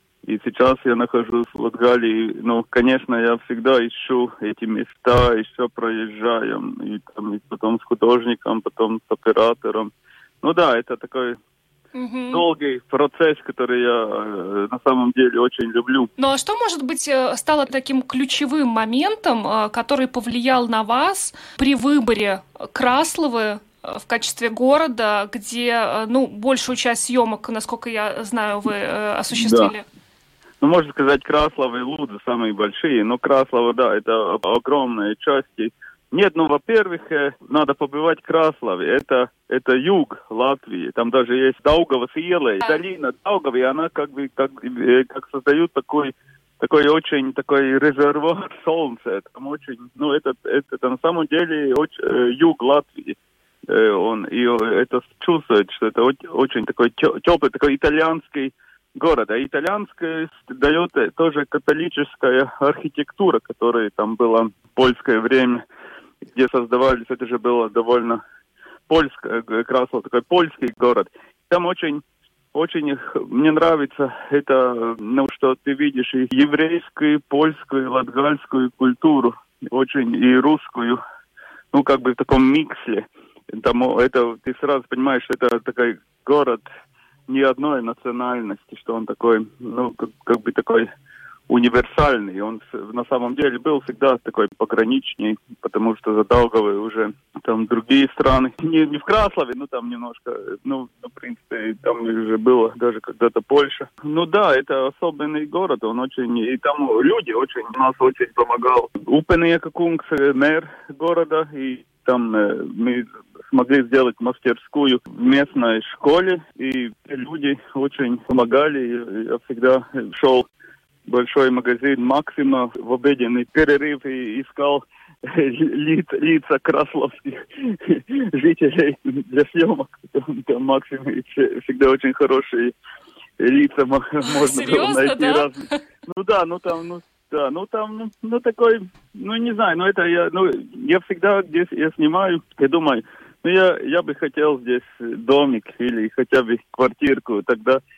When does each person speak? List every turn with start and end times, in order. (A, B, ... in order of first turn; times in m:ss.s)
0:00.3-0:11.4 A
0:11.9-0:12.5 B
0:12.3-0:16.1 A
0:16.2-0:29.8 B
0:29.3-0:29.7 A
0:30.6-0:53.2 A
0:53.7-1:05.6 A
1:06.3-1:08.2 A
1:08.9-1:12.0 A
1:12.5-1:21.0 A
1:21.7-1:26.6 A
1:27.3-1:30.9 A
1:31.5-2:00.5 A
2:01.1-2:12.7 A
2:13.4-2:27.8 A
2:14.2-2:15.8 B